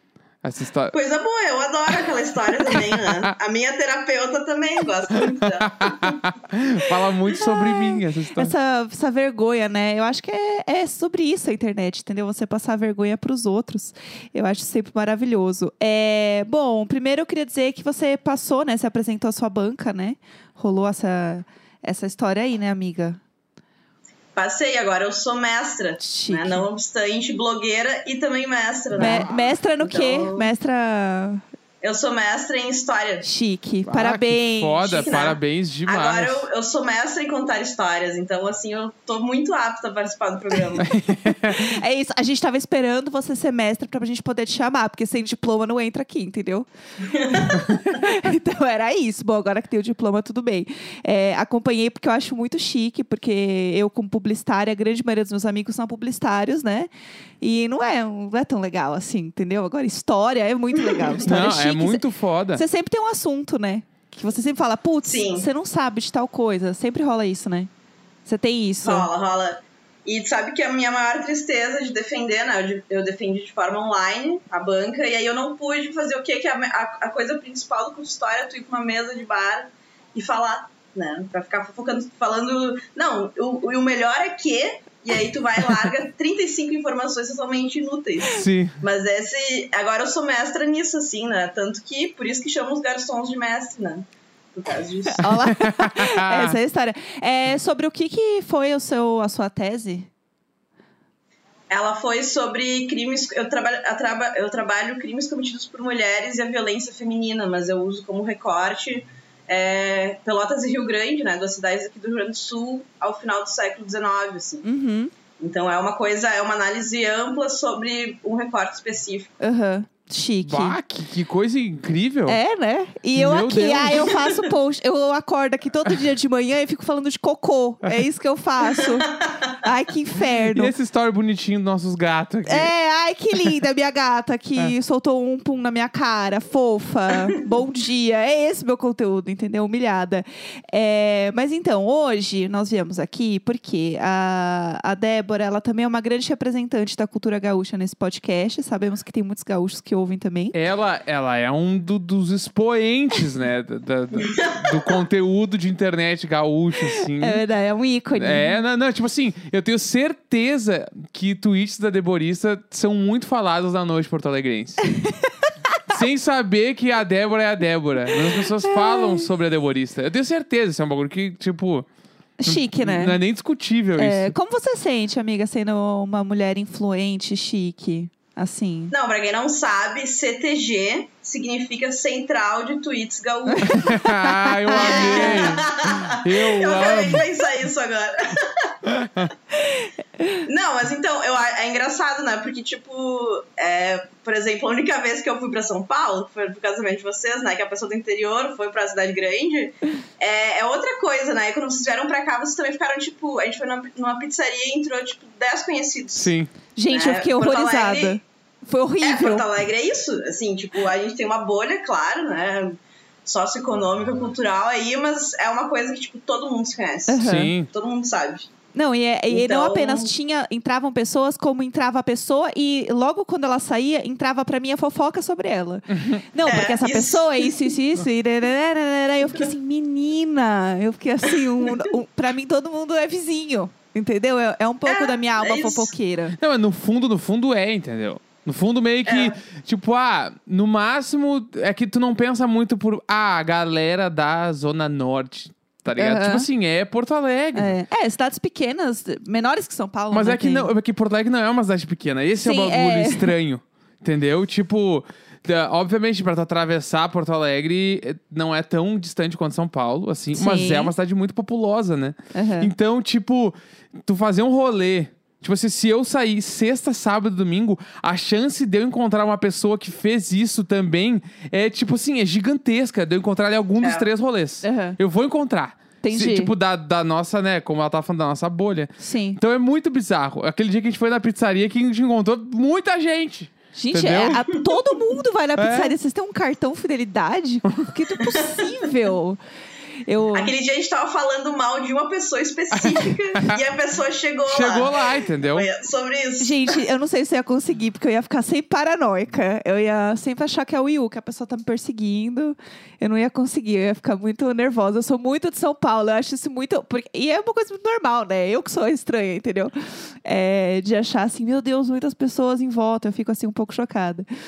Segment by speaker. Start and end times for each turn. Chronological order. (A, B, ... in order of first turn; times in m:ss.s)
0:00.4-0:00.9 A
0:00.9-0:06.2 B
0:05.1-0:08.5 A
0:07.3-0:23.2 C
0:24.4-0:30.5 B
0:26.0-0:26.6 C
0:28.9-0:29.4 A
0:29.0-0:31.4 C
0:31.8-0:33.2 B
0:33.2-0:35.1 C
0:33.8-0:36.4 A
0:34.9-0:40.9 B
0:40.8-0:41.8 A
0:41.4-0:56.9 C
0:47.1-0:47.5 B
0:57.4-1:07.7 C
1:00.8-1:01.2 B
1:01.2-1:02.6 A
1:05.1-1:05.5 B
1:08.2-1:09.1 C
1:08.8-1:35.3 B
1:28.2-1:28.7 A
1:35.2-1:40.1 C
1:35.2-1:36.6 A
1:41.7-1:54.6 B
1:54.6-1:55.1 C
1:55.4-1:59.3 B
1:59.4-2:00.8 C
2:00.4-2:02.4 A
2:02.3-2:10.7 C
2:03.1-2:04.2 A
2:10.5-2:12.7 A
2:12.4-2:30.6 C
2:30.5-2:37.4 A
2:34.2-2:35.0 B
2:37.2-2:38.6 C
2:38.2-2:44.8 A
2:45.9-2:51.9 A
2:48.6-2:49.2 C
2:52.4-2:53.2 C
2:52.4-2:54.3 A
2:54.0-2:58.9 C
2:58.9-3:04.0 B
3:03.5-3:05.6 C
3:03.6-3:07.3 A
3:04.7-3:08.7 B
3:08.8-3:09.3 A
3:10.4-3:26.3 B
3:26.1-3:26.5 A
3:26.8-3:29.5 C
3:26.9-3:28.2 B
3:29.0-3:38.5 B
3:37.1-3:37.5 C
3:37.2-3:37.7 A
3:38.7-3:56.4 C
3:39.3-3:40.1 B
3:45.9-3:46.2 A
3:46.4-3:47.5 B
3:51.6-3:51.8 B
3:54.8-3:55.9 B
3:56.4-4:07.7 A
3:59.0-3:59.4 B
4:06.0-4:06.5 C
4:07.5-4:10.7 C
4:10.1-4:44.4 A
4:12.4-4:13.3 C
4:20.4-4:20.9 C
4:22.3-4:22.7 C
4:33.8-4:34.1 B
4:34.6-4:35.0 C
4:36.0-4:36.5 C
4:39.0-4:39.4 C
4:43.7-4:49.4 C
4:45.6-4:45.9 A
4:48.2-4:48.7 B
4:50.1-4:50.5 C
4:50.3-4:56.8 B
4:52.7-4:53.6 A
4:54.5-4:55.7 A
4:56.4-5:09.7 C
5:10.2-5:14.3 C